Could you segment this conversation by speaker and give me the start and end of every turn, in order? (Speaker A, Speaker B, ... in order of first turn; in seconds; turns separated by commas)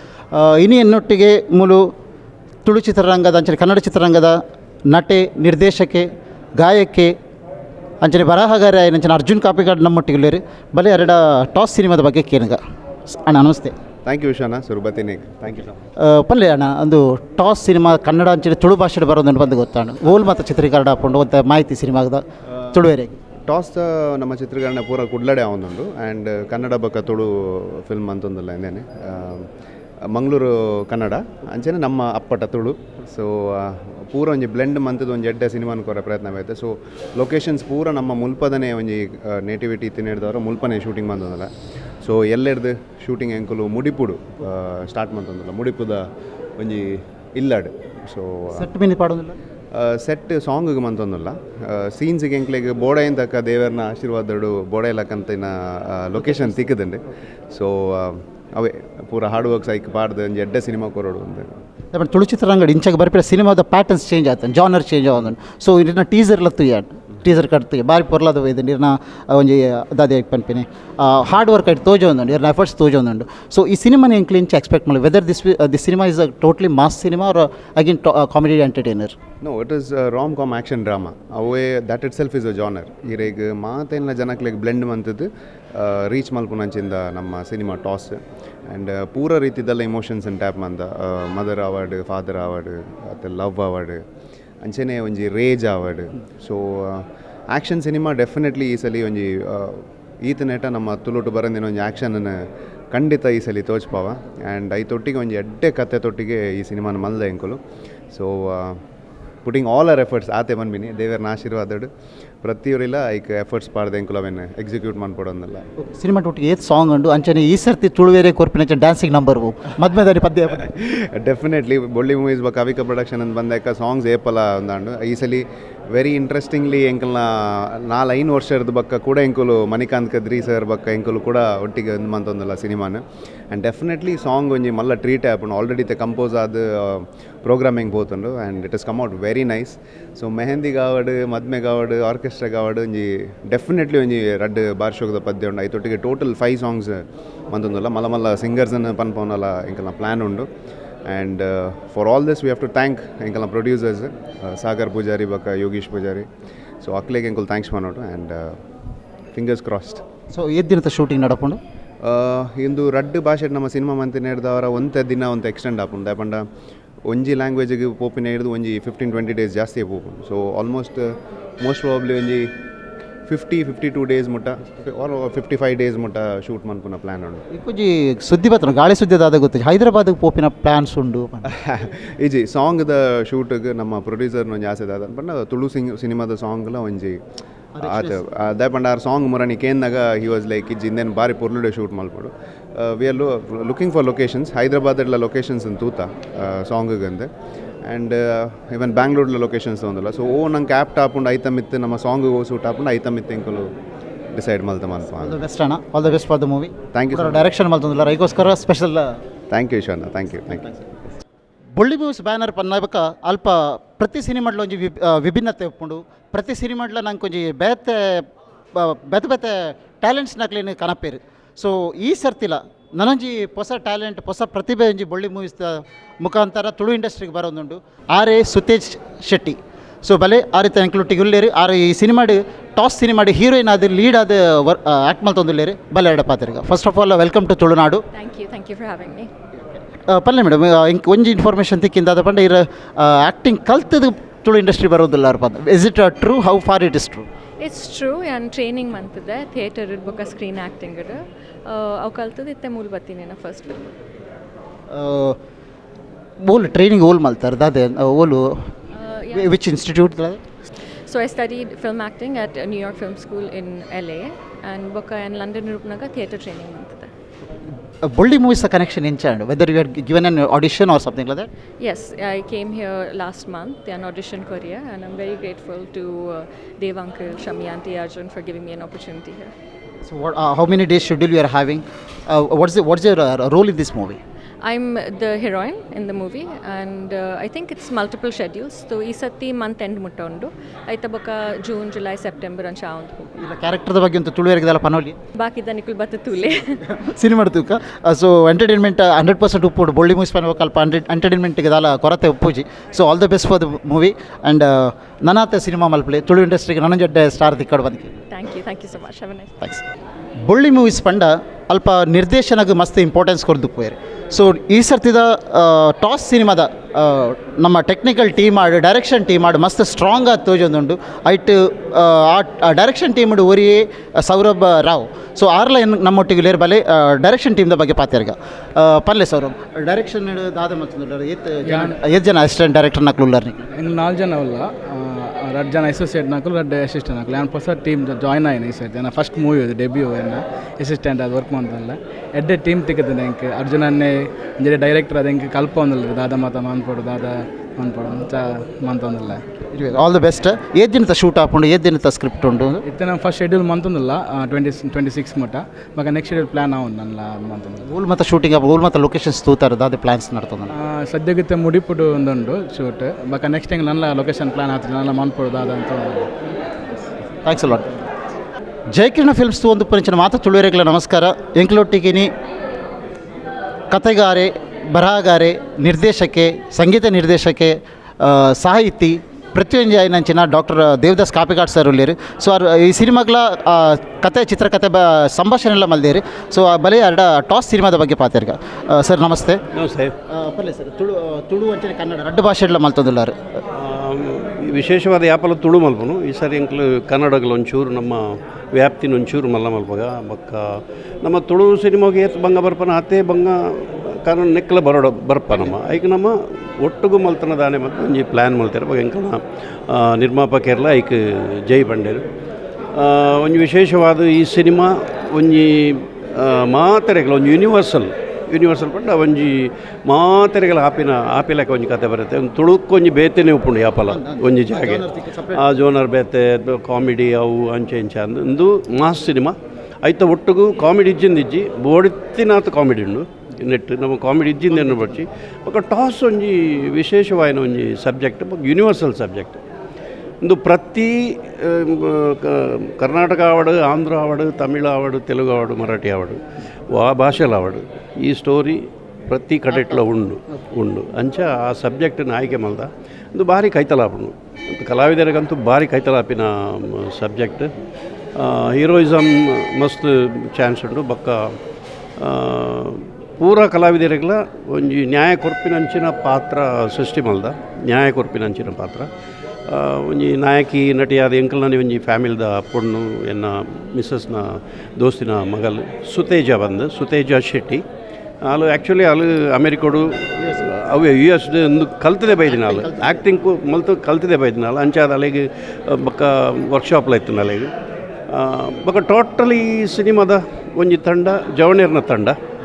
Speaker A: 0.3-1.8, Speaker A: 2.6-4.4, Speaker A: 4.9-7.1, Speaker A: 8.0-13.7, Speaker B: 14.0-15.8, Speaker A: 16.0-23.1, Speaker B: 23.5-29.5, Speaker B: 30.1-46.0, Speaker B: 46.6-48.7, Speaker A: 48.5-49.4, Speaker B: 49.7-61.5, Speaker A: 56.2-56.7, Speaker A: 61.9-79.2, Speaker B: 79.4-94.0, Speaker B: 94.6-102.3, Speaker B: 102.9-107.6, Speaker B: 108.1-108.8, Speaker B: 109.4-111.9, Speaker B: 112.4-115.7, Speaker A: 115.8-120.6, Speaker B: 120.6-150.5, Speaker B: 151.1-156.3, Speaker B: 156.8-158.6, Speaker B: 159.3-160.0, Speaker A: 160.3-161.6, Speaker B: 162.0-166.4, Speaker B: 167.1-172.5, Speaker B: 173.3-177.4, Speaker A: 177.5-181.5, Speaker B: 181.4-187.2, Speaker A: 187.8-188.2, Speaker B: 187.8-197.3, Speaker B: 197.8-203.7, Speaker B: 204.3-205.4, Speaker A: 205.2-209.2, Speaker B: 206.9-207.5, Speaker B: 209.5-210.7, Speaker A: 210.3-210.8, Speaker A: 211.8-238.0, Speaker C: 238.1-239.3, Speaker A: 239.7-247.3, Speaker C: 247.6-253.9, Speaker A: 254.9-255.3, Speaker A: 256.4-258.7, Speaker C: 258.9-259.5, Speaker A: 259.3-260.4, Speaker C: 261.1-267.1, Speaker A: 268.0-271.5, Speaker C: 271.8-279.5, Speaker A: 280.1-284.2, Speaker C: 284.6-293.4, Speaker A: 293.4-295.1, Speaker C: 295.3-296.8, Speaker A: 296.9-308.1, Speaker C: 308.3-309.6, Speaker A: 310.5-333.6, Speaker D: 331.6-331.9, Speaker D: 333.7-349.4, Speaker A: 349.7-352.8, Speaker D: 352.8-357.9, Speaker A: 357.8-360.7, Speaker D: 360.7-366.3, Speaker A: 367.4-368.1, Speaker A: 368.9-372.3, Speaker A: 373.9-389.6, Speaker E: 389.7-390.1, Speaker A: 390.3-393.4, Speaker E: 393.7-398.2, Speaker E: 398.7-400.6, Speaker E: 401.2-412.2, Speaker E: 412.9-439.6, Speaker A: 424.1-425.6, Speaker A: 434.7-435.2, Speaker E: 440.4-457.7, Speaker A: 449.7-450.0, Speaker E: 458.4-461.6, Speaker E: 462.2-469.1, Speaker E: 469.7-477.8, Speaker E: 478.4-487.7, Speaker A: 480.4-480.7, Speaker A: 482.3-483.2, Speaker E: 488.3-492.4